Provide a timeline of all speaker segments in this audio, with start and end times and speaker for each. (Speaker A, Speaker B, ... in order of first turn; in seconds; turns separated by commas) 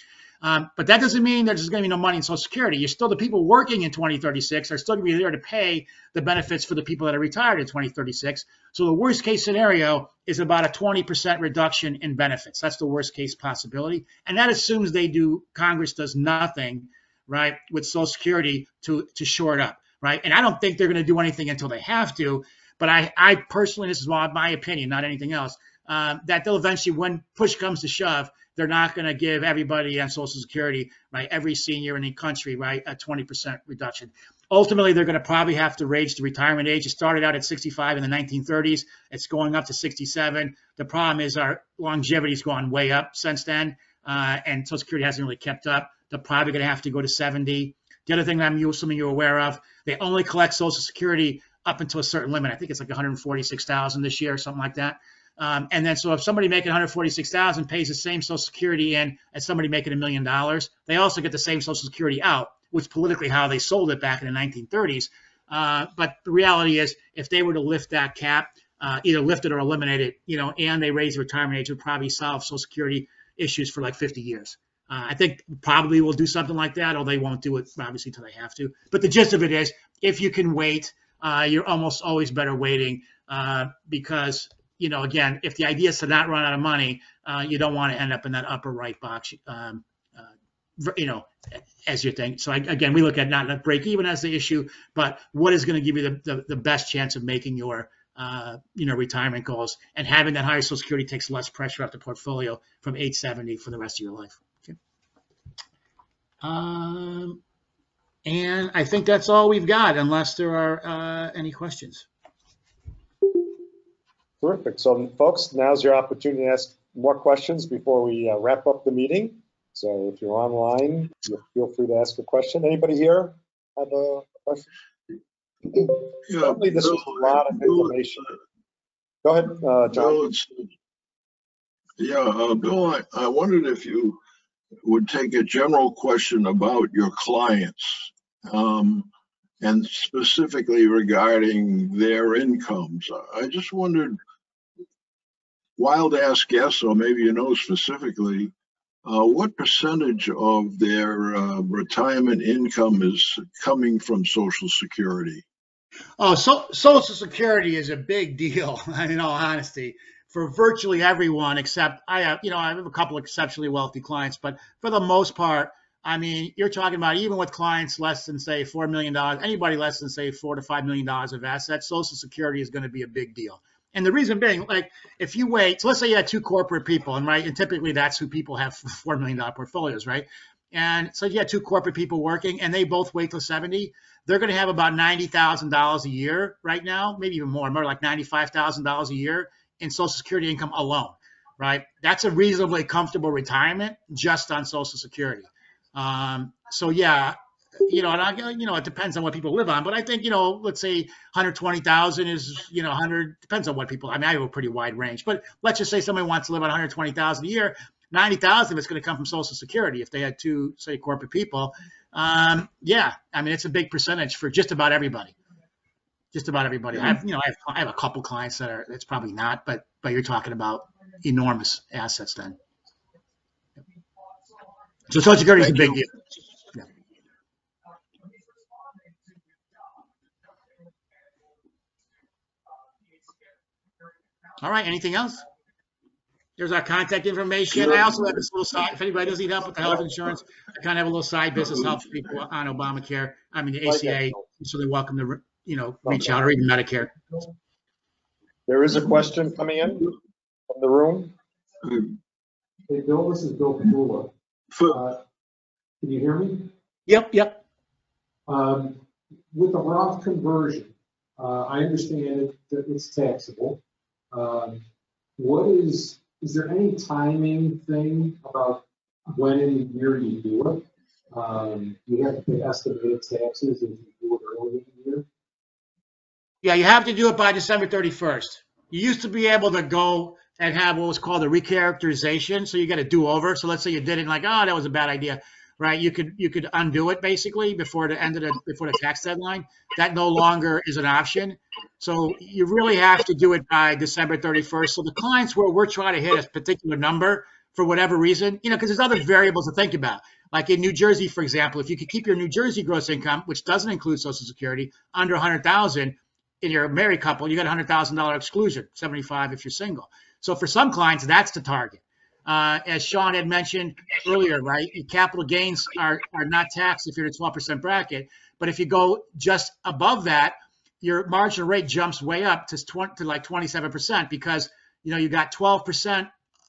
Speaker A: 0.4-104.8, Speaker A: 106.4-107.4, Speaker A: 108.2-112.1, Speaker B: 114.4-124.7, Speaker B: 125.7-128.3, Speaker C: 126.3-128.0, Speaker B: 129.2-130.2, Speaker C: 129.9-130.7, Speaker C: 132.0-134.2, Speaker C: 134.8-139.1, Speaker C: 139.6-144.2, Speaker C: 145.8-148.5, Speaker C: 149.0-155.4, Speaker A: 156.2-215.3, Speaker A: 216.3-222.6, Speaker A: 225.1-226.1, Speaker C: 225.6-226.0, Speaker A: 234.6-235.4, Speaker A: 236.6-247.2, Speaker C: 237.7-238.1, Speaker B: 248.7-250.1, Speaker B: 250.7-251.3, Speaker C: 251.8-252.1, Speaker D: 252.9-254.3, Speaker C: 254.7-255.0, Speaker D: 254.9-255.2, Speaker D: 256.0-256.7, Speaker A: 257.1-257.6, Speaker D: 258.5-259.0, Speaker D: 259.5-263.8, Speaker D: 264.3-264.8, Speaker D: 265.4-275.2, Speaker A: 276.6-326.3